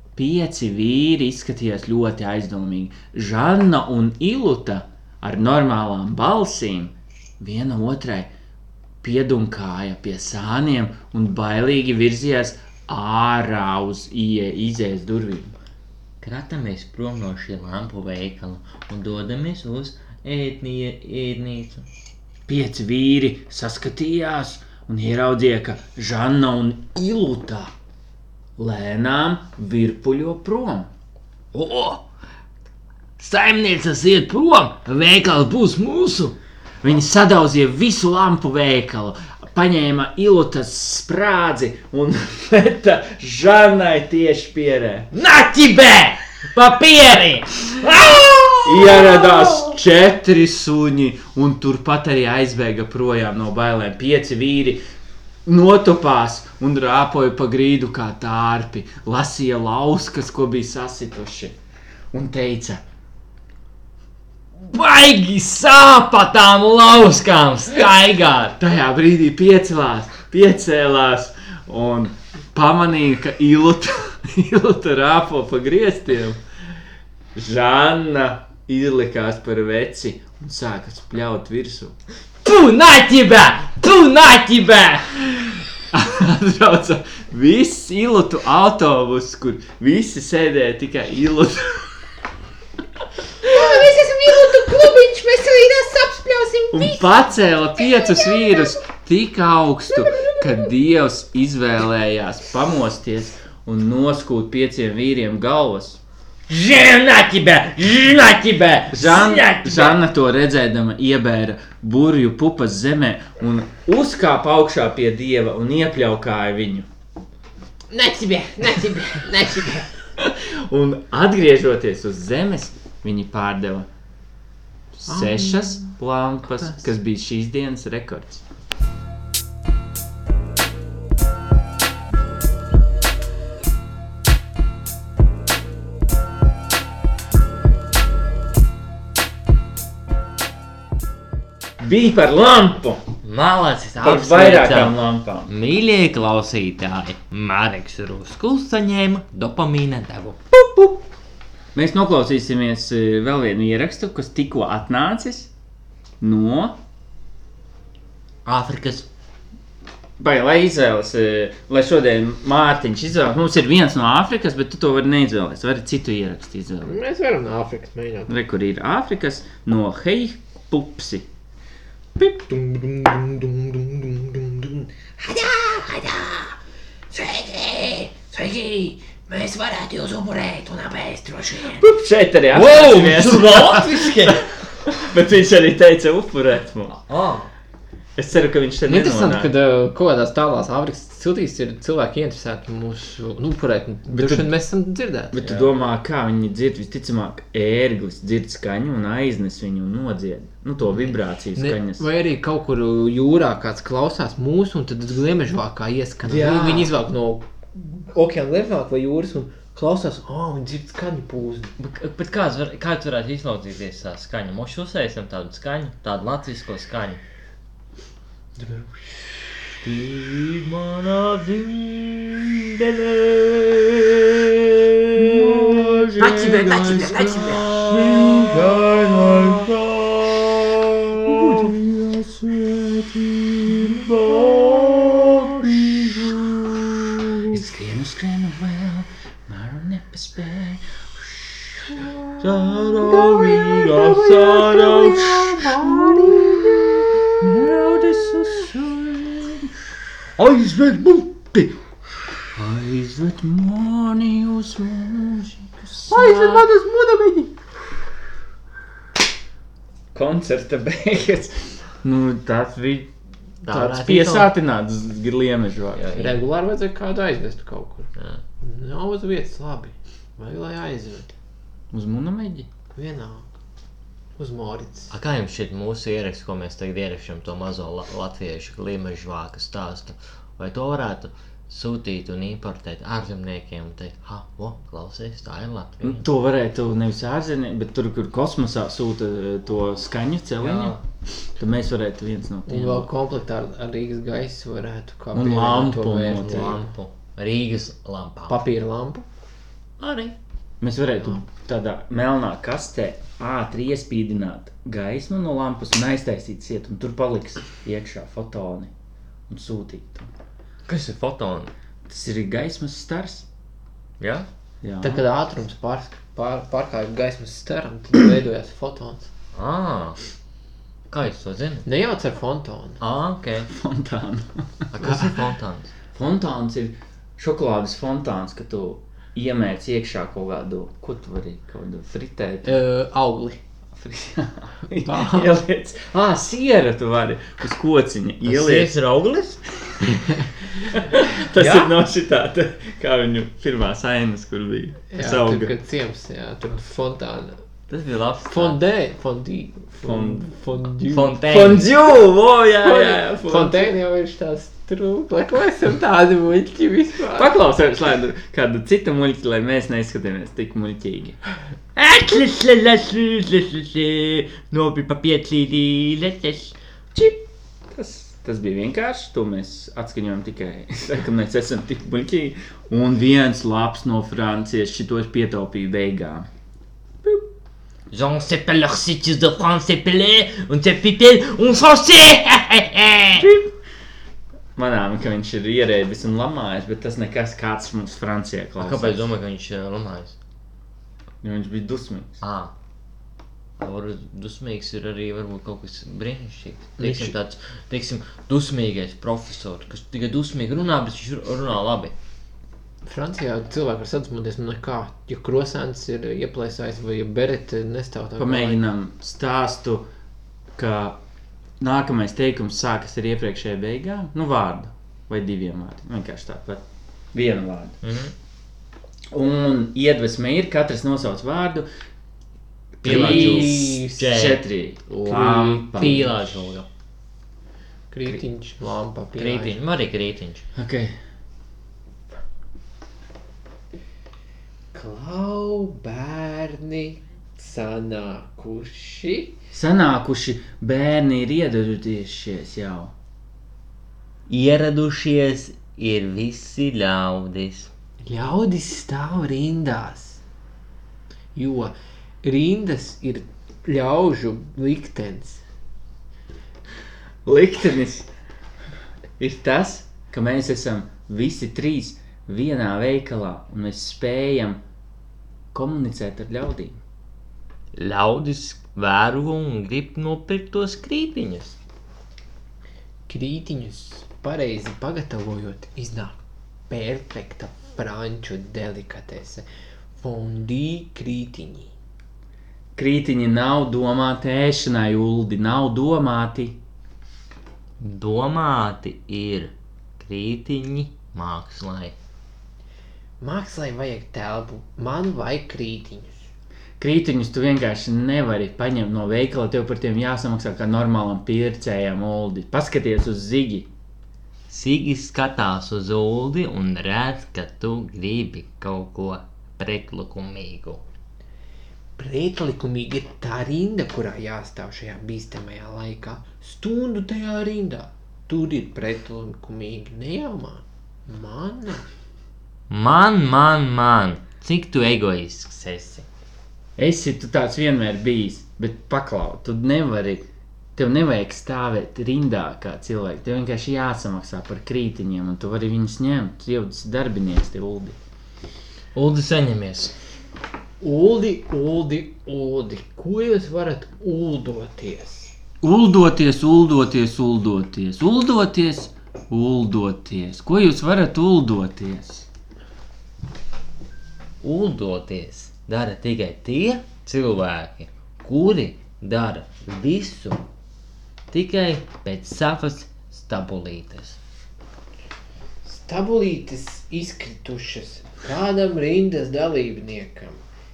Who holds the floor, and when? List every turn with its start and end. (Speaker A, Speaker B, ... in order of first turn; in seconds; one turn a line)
Speaker A: 0.1-8.3
Speaker A: 9.0-15.5
Speaker B: 16.2-21.9
Speaker A: 22.5-27.7
Speaker A: 28.6-30.9
Speaker B: 31.5-32.0
Speaker B: 33.2-36.4
Speaker A: 36.8-45.1
Speaker B: 45.1-49.7
Speaker A: 48.6-54.8
Speaker A: 55.5-61.5
Speaker A: 62.1-62.8
Speaker B: 64.7-68.6
Speaker A: 68.6-76.4
Speaker A: 77.3-82.0
Speaker B: 82.4-85.6
Speaker A: 85.9-91.9
Speaker C: 93.4-97.2
Speaker A: 96.7-106.0
Speaker C: 97.8-98.7
Speaker C: 100.1-100.4
Speaker B: 106.5-110.0
Speaker A: 108.9-116.9
Speaker C: 117.9-119.9
Speaker A: 120.2-123.9
Speaker A: 124.9-128.4
Speaker C: 125.1-125.9
Speaker A: 141.8-143.0
Speaker B: 143.2-150.6
Speaker A: 144.0-145.5
Speaker A: 151.7-155.5
Speaker A: 156.2-156.8
Speaker B: 158.4-159.1
Speaker A: 160.2-167.0
Speaker C: 166.8-168.3
Speaker A: 168.3-171.3
Speaker C: 172.2-176.5
Speaker C: 177.1-181.8
Speaker A: 181.8-187.0
Speaker B: 182.5-184.4
Speaker B: 187.1-187.5
Speaker A: 188.2-189.5
Speaker C: 188.8-195.7
Speaker A: 194.1-194.5
Speaker A: 195.3-202.0
Speaker C: 200.9-211.7
Speaker A: 206.2-206.9
Speaker B: 211.8-217.2
Speaker C: 218.6-219.4
Speaker B: 219.8-237.5
Speaker A: 225.2-228.8
Speaker C: 226.2-227.7
Speaker A: 231.2-231.8
Speaker A: 232.7-233.0
Speaker A: 233.6-235.9
Speaker A: 237.5-246.6
Speaker B: 242.4-247.1
Speaker A: 247.4-249.7
Speaker B: 250.4-251.7
Speaker A: 252.5-256.6
Speaker C: 256.1-257.5
Speaker B: 256.2-256.7
Speaker A: 260.1-263.1
Speaker B: 263.6-264.5
Speaker A: 263.6-266.1
Speaker B: 265.9-266.4
Speaker C: 266.1-268.1
Speaker B: 268.2-268.4
Speaker C: 268.6-271.3
Speaker A: 271.9-272.7
Speaker C: 272.9-273.5
Speaker C: 274.4-275.1
Speaker B: 275.1-286.2
Speaker A: 286.0-290.9
Speaker B: 290.6-291.0
Speaker A: 291.6-293.1
Speaker C: 292.7-296.9
Speaker A: 295.3-296.8
Speaker B: 296.3-298.6
Speaker C: 298.5-299.2
Speaker B: 300.0-300.4
Speaker A: 300.8-308.9
Speaker A: 309.5-310.3
Speaker B: 310.9-311.7
Speaker A: 312.1-313.5
Speaker B: 314.2-314.5
Speaker A: 314.8-315.2
Speaker C: 315.0-319.3
Speaker B: 319.5-320.2
Speaker B: 321.1-321.9
Speaker C: 321.8-323.0
Speaker B: 323.0-323.7
Speaker A: 323.7-324.9
Speaker B: 324.9-325.9
Speaker A: 326.1-332.8
Speaker C: 332.6-333.6
Speaker A: 333.9-338.9
Speaker C: 335.0-335.5
Speaker B: 338.4-340.3
Speaker A: 340.9-345.7
Speaker B: 341.6-341.9
Speaker C: 345.1-347.6
Speaker B: 347.9-348.8
Speaker C: 348.5-351.3
Speaker A: 349.9-350.4
Speaker B: 351.0-351.9
Speaker A: 351.4-353.9
Speaker C: 352.8-357.5
Speaker A: 357.3-361.4
Speaker B: 361.9-367.3
Speaker A: 367.9-376.5
Speaker B: 378.1-383.5
Speaker A: 383.4-383.7
Speaker A: 384.8-389.3
Speaker B: 388.8-390.4
Speaker A: 391.4-392.4
Speaker B: 392.4-392.7
Speaker B: 393.8-402.1
Speaker C: 397.0-397.3
Speaker C: 403.1-408.8
Speaker A: 408.4-410.1
Speaker A: 410.8-411.2
Speaker A: 411.8-418.0
Speaker B: 418.0-418.3
Speaker A: 419.3-421.9
Speaker A: 423.0-426.4
Speaker B: 423.0-426.9
Speaker C: 423.0-424.2
Speaker C: 428.1-429.8
Speaker B: 429.4-430.6
Speaker A: 430.8-431.1
Speaker C: 434.9-439.6
Speaker A: 439.7-443.1
Speaker B: 444.5-447.9
Speaker C: 448.2-450.4
Speaker C: 451.5-455.6
Speaker A: 457.4-458.3
Speaker A: 459.4-464.8
Speaker A: 465.7-467.0
Speaker B: 467.9-471.8
Speaker C: 473.3-476.4
Speaker C: 476.9-481.9
Speaker A: 482.9-486.8
Speaker B: 488.0-492.1
Speaker C: 493.4-496.5
Speaker A: 497.0-503.9
Speaker B: 504.7-511.0
Speaker C: 512.2-522.1
Speaker B: 522.9-526.2
Speaker A: 527.0-530.4
Speaker A: 531.0-538.2
Speaker B: 539.1-540.1
Speaker C: 541.0-545.5
Speaker A: 545.8-552.5
Speaker B: 554.6-560.6
Speaker B: 561.5-564.4
Speaker C: 565.8-570.6